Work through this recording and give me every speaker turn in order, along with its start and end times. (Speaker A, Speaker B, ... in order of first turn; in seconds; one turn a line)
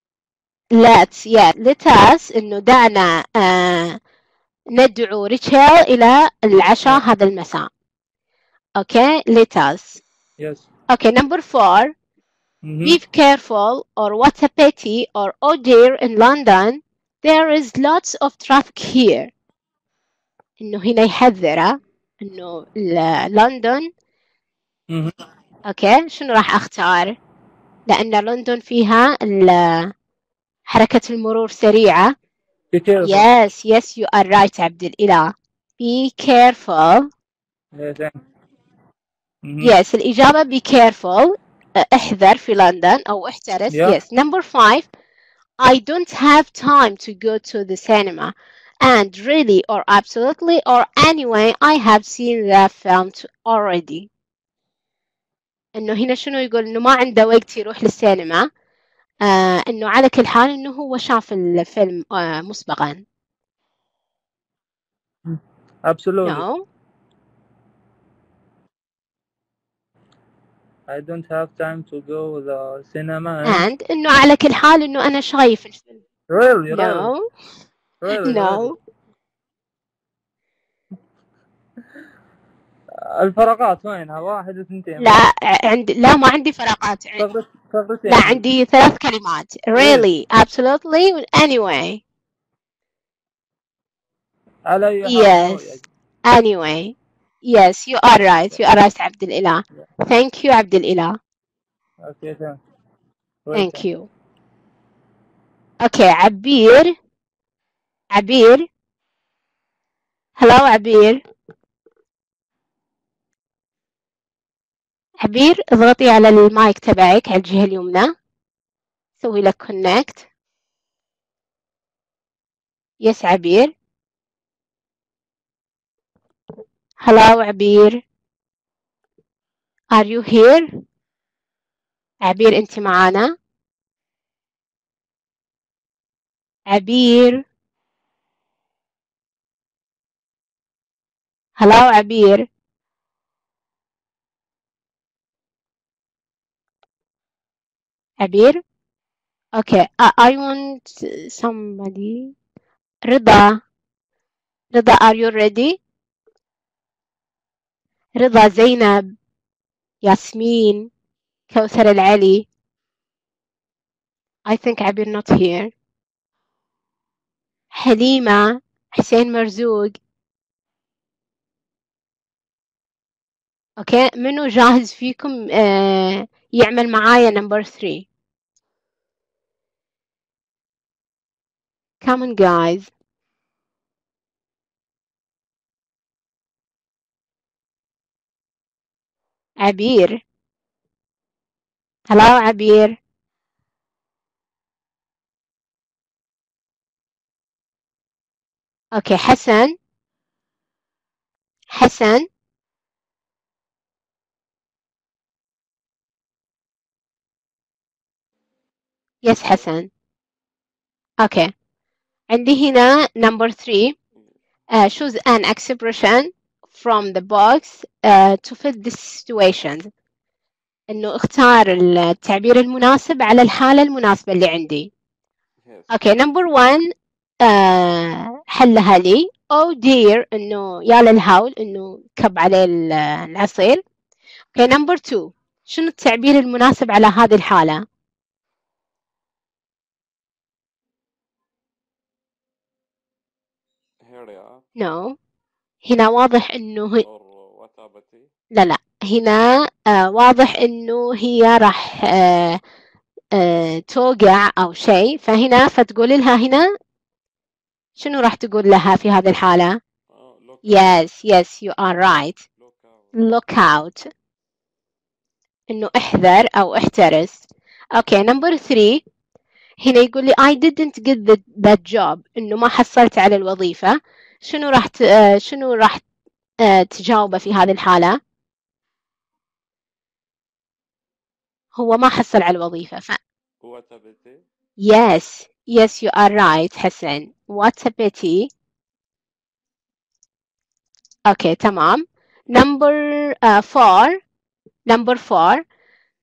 Speaker A: 0.7-4.0
Speaker A: 4.7-7.7
Speaker A: 8.8-10.0
Speaker B: 10.4-10.7
Speaker A: 10.9-11.9
Speaker B: 12.6-13.0
Speaker A: 12.8-19.3
Speaker A: 20.6-23.9
Speaker A: 25.7-27.1
Speaker A: 27.9-29.9
Speaker A: 30.7-32.1
Speaker B: 32.7-33.2
Speaker A: 33.0-37.1
Speaker B: 37.7-38.2
Speaker B: 39.4-39.7
Speaker A: 39.6-44.9
Speaker B: 43.7-44.0
Speaker A: 45.6-54.1
Speaker A: 55.8-58.5
Speaker A: 59.2-63.0
Speaker B: 65.2-66.4
Speaker A: 66.2-66.6
Speaker B: 70.9-73.6
Speaker A: 73.4-76.0
Speaker B: 76.3-77.1
Speaker A: 76.7-77.2
Speaker B: 78.0-78.7
Speaker A: 78.2-78.8
Speaker B: 83.2-85.2
Speaker A: 85.0-87.2
Speaker B: 87.2-88.4
Speaker A: 88.1-92.0
Speaker B: 89.7-90.1
Speaker B: 94.7-95.8
Speaker A: 95.0-95.7
Speaker A: 96.3-96.9
Speaker A: 97.5-101.2
Speaker B: 102.0-102.6
Speaker B: 103.5-103.8
Speaker A: 103.5-104.1
Speaker A: 105.8-106.9
Speaker A: 108.1-108.7
Speaker A: 110.4-111.2
Speaker A: 115.2-118.1
Speaker A: 119.2-120.2
Speaker A: 123.0-123.7
Speaker A: 127.0-128.0
Speaker A: 129.9-130.7
Speaker A: 132.2-133.3
Speaker A: 136.7-137.4
Speaker A: 141.6-142.4
Speaker A: 148.2-148.6
Speaker A: 149.6-152.3
Speaker A: 153.1-153.6
Speaker A: 154.7-155.8
Speaker A: 158.2-159.0
Speaker A: 160.0-160.9
Speaker A: 161.5-162.5
Speaker A: 164.5-165.7
Speaker A: 167.8-169.9
Speaker A: 173.8-178.1
Speaker A: 182.0-182.9
Speaker A: 189.6-190.2
Speaker A: 192.1-193.0
Speaker A: 198.9-199.7
Speaker A: 201.7-202.3
Speaker A: 209.2-209.9
Speaker A: 211.2-211.5
Speaker A: 212.3-213.9
Speaker A: 214.7-219.9
Speaker A: 220.9-224.9
Speaker C: 225.6-226.0
Speaker A: 225.9-226.9
Speaker A: 227.4-233.8
Speaker A: 234.5-237.8
Speaker C: 244.0-244.7
Speaker A: 244.8-245.2
Speaker A: 245.8-247.0
Speaker C: 247.0-248.3
Speaker A: 248.5-252.6
Speaker A: 253.3-256.6
Speaker A: 258.0-259.8
Speaker C: 260.1-261.0
Speaker A: 260.6-262.4
Speaker C: 262.2-263.2
Speaker A: 263.1-264.0
Speaker A: 265.7-269.0
Speaker A: 269.8-276.0
Speaker A: 276.6-278.2
Speaker A: 281.8-283.2
Speaker C: 283.6-284.4
Speaker A: 284.8-288.5
Speaker A: 291.3-294.2
Speaker A: 294.9-295.6